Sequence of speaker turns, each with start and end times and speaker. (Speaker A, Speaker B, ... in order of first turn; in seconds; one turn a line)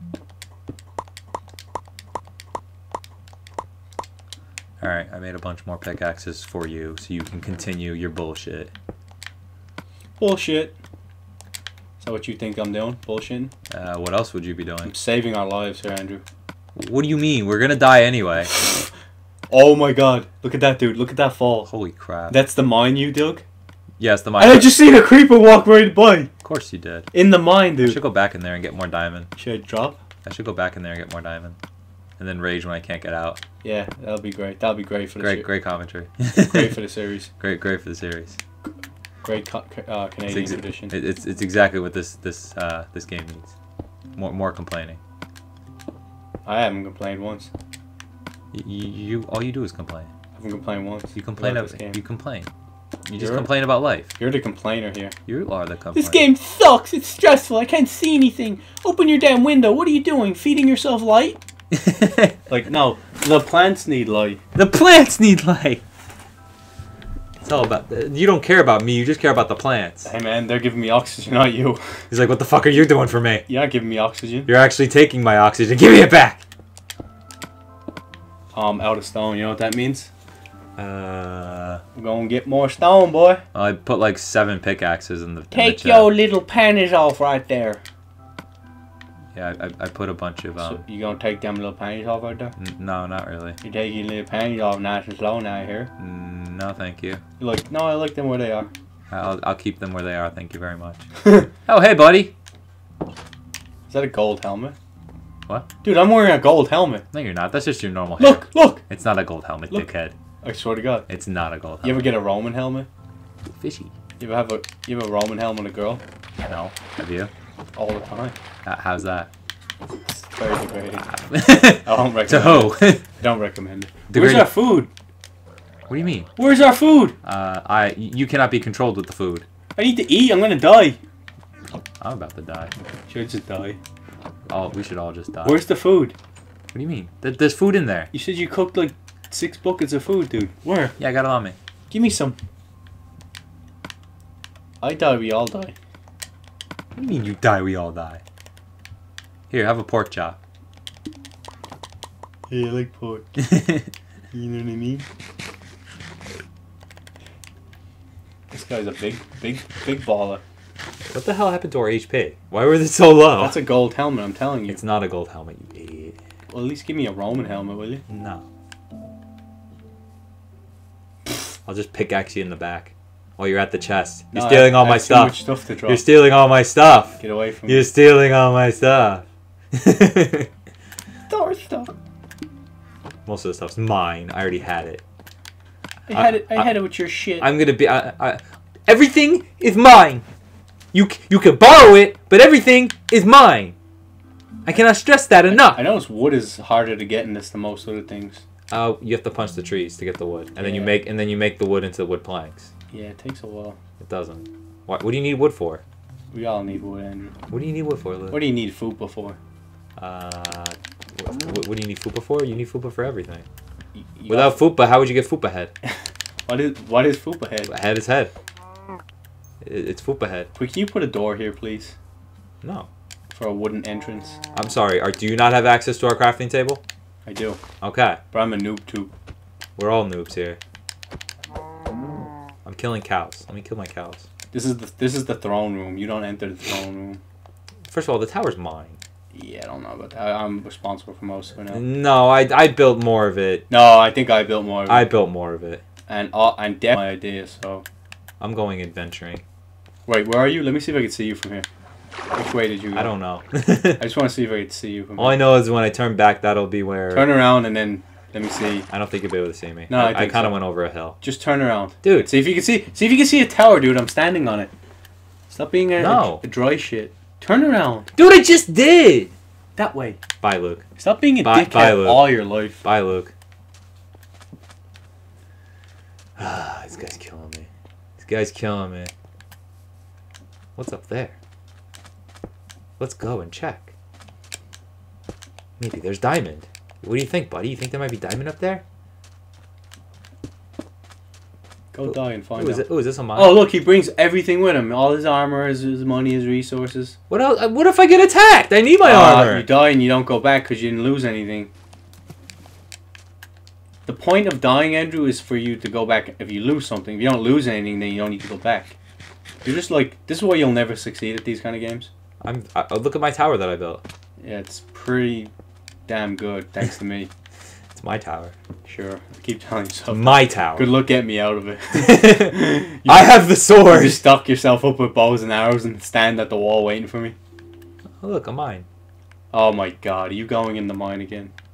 Speaker A: 4.8-8.7
Speaker B: 10.2-10.8
Speaker B: 12.0-13.5
Speaker A: 13.7-14.9
Speaker B: 14.8-16.2
Speaker A: 16.8-18.6
Speaker B: 19.5-21.7
Speaker A: 21.7-22.4
Speaker B: 22.3-23.4
Speaker A: 24.0-24.7
Speaker B: 24.4-26.3
Speaker A: 26.4-27.1
Speaker B: 27.1-28.0
Speaker A: 27.8-29.3
Speaker B: 29.4-30.0
Speaker A: 30.2-31.6
Speaker A: 32.2-33.4
Speaker B: 33.6-35.5
Speaker A: 35.2-36.8
Speaker B: 36.4-37.3
Speaker A: 37.4-38.4
Speaker B: 39.2-40.9
Speaker A: 40.3-43.5
Speaker A: 44.2-45.0
Speaker B: 46.5-47.5
Speaker A: 48.5-50.1
Speaker B: 50.4-52.0
Speaker A: 51.1-52.5
Speaker A: 53.1-54.1
Speaker B: 53.2-53.5
Speaker B: 54.1-55.1
Speaker A: 55.3-56.3
Speaker B: 56.0-61.4
Speaker A: 61.8-62.4
Speaker B: 62.5-64.4
Speaker A: 64.6-65.8
Speaker A: 67.4-70.1
Speaker B: 70.0-71.8
Speaker A: 72.1-73.5
Speaker B: 73.5-74.5
Speaker A: 74.5-76.4
Speaker B: 78.5-80.1
Speaker A: 80.8-81.8
Speaker B: 82.0-83.4
Speaker A: 83.5-86.1
Speaker B: 85.5-87.8
Speaker A: 89.3-90.8
Speaker B: 90.6-92.5
Speaker A: 92.6-93.6
Speaker B: 93.6-95.9
Speaker A: 96.0-97.2
Speaker B: 97.4-98.7
Speaker A: 99.1-101.1
Speaker B: 101.2-101.5
Speaker A: 101.7-102.3
Speaker B: 103.9-104.8
Speaker B: 105.8-107.0
Speaker A: 107.1-110.2
Speaker B: 108.2-108.8
Speaker B: 110.4-111.1
Speaker A: 111.1-112.2
Speaker B: 111.8-112.9
Speaker A: 113.5-113.9
Speaker B: 114.2-116.0
Speaker A: 116.5-117.3
Speaker B: 117.8-118.4
Speaker A: 118.7-119.3
Speaker B: 120.1-121.1
Speaker A: 121.1-123.1
Speaker B: 121.7-124.9
Speaker A: 124.1-124.5
Speaker A: 125.9-126.3
Speaker B: 126.4-127.2
Speaker A: 127.2-129.5
Speaker B: 129.8-131.0
Speaker A: 132.0-132.7
Speaker B: 133.1-133.8
Speaker A: 134.5-135.6
Speaker B: 135.4-136.2
Speaker A: 136.7-138.1
Speaker B: 138.1-141.0
Speaker A: 141.0-141.6
Speaker B: 141.9-142.4
Speaker B: 144.8-145.8
Speaker A: 147.0-148.2
Speaker A: 149.5-150.4
Speaker B: 152.5-153.7
Speaker B: 154.3-155.1
Speaker B: 158.5-160.4
Speaker A: 161.1-163.7
Speaker B: 163.4-164.8
Speaker A: 164.7-166.2
Speaker B: 166.5-168.0
Speaker A: 168.1-168.4
Speaker A: 171.7-180.5
Speaker B: 174.3-176.0
Speaker B: 177.2-177.9
Speaker B: 181.3-181.9
Speaker A: 183.3-185.0
Speaker B: 186.1-187.5
Speaker A: 186.1-186.8
Speaker A: 187.4-190.2
Speaker A: 190.9-193.8
Speaker A: 194.7-195.9
Speaker B: 195.5-198.4
Speaker A: 198.7-202.7
Speaker B: 200.6-201.0
Speaker B: 202.9-203.8
Speaker A: 204.0-205.8
Speaker B: 206.3-207.3
Speaker A: 207.5-208.4
Speaker B: 208.3-209.4
Speaker A: 210.0-213.5
Speaker B: 214.0-214.6
Speaker A: 214.3-215.7
Speaker B: 216.5-217.7
Speaker A: 217.7-218.3
Speaker A: 219.6-220.5
Speaker B: 220.6-221.9
Speaker A: 222.6-222.9
Speaker B: 223.3-224.4
Speaker A: 224.5-226.8
Speaker B: 227.3-227.6
Speaker A: 227.8-228.2
Speaker B: 228.3-229.1
Speaker A: 229.8-230.6
Speaker A: 232.7-234.2
Speaker B: 234.5-237.2
Speaker A: 237.9-239.0
Speaker B: 239.3-241.8
Speaker A: 241.7-243.7
Speaker B: 243.7-245.1
Speaker A: 244.9-245.8
Speaker B: 246.1-247.8
Speaker A: 248.4-249.4
Speaker B: 250.1-251.7
Speaker B: 252.3-253.1
Speaker A: 252.9-254.0
Speaker B: 254.0-255.4
Speaker A: 255.2-257.3
Speaker B: 257.1-258.9
Speaker A: 258.9-261.2
Speaker B: 259.9-260.6
Speaker B: 261.2-264.7
Speaker A: 262.0-262.3
Speaker B: 265.5-268.1
Speaker A: 265.9-266.4
Speaker A: 268.2-269.3
Speaker B: 269.8-270.2
Speaker A: 270.4-270.8
Speaker B: 271.0-272.8
Speaker A: 271.4-273.3
Speaker A: 276.4-277.7
Speaker A: 278.2-279.1
Speaker A: 280.8-281.4
Speaker A: 283.0-283.9
Speaker A: 285.8-288.8
Speaker B: 291.9-297.2
Speaker A: 292.1-293.7
Speaker A: 297.3-299.7
Speaker B: 299.0-301.7
Speaker B: 304.1-308.9
Speaker B: 309.6-312.1
Speaker A: 312.4-314.0
Speaker B: 314.4-315.5
Speaker B: 316.1-317.3
Speaker A: 318.0-318.5
Speaker B: 318.9-327.4
Speaker A: 320.1-321.0
Speaker A: 321.9-324.2
Speaker A: 328.2-328.9
Speaker B: 329.5-331.5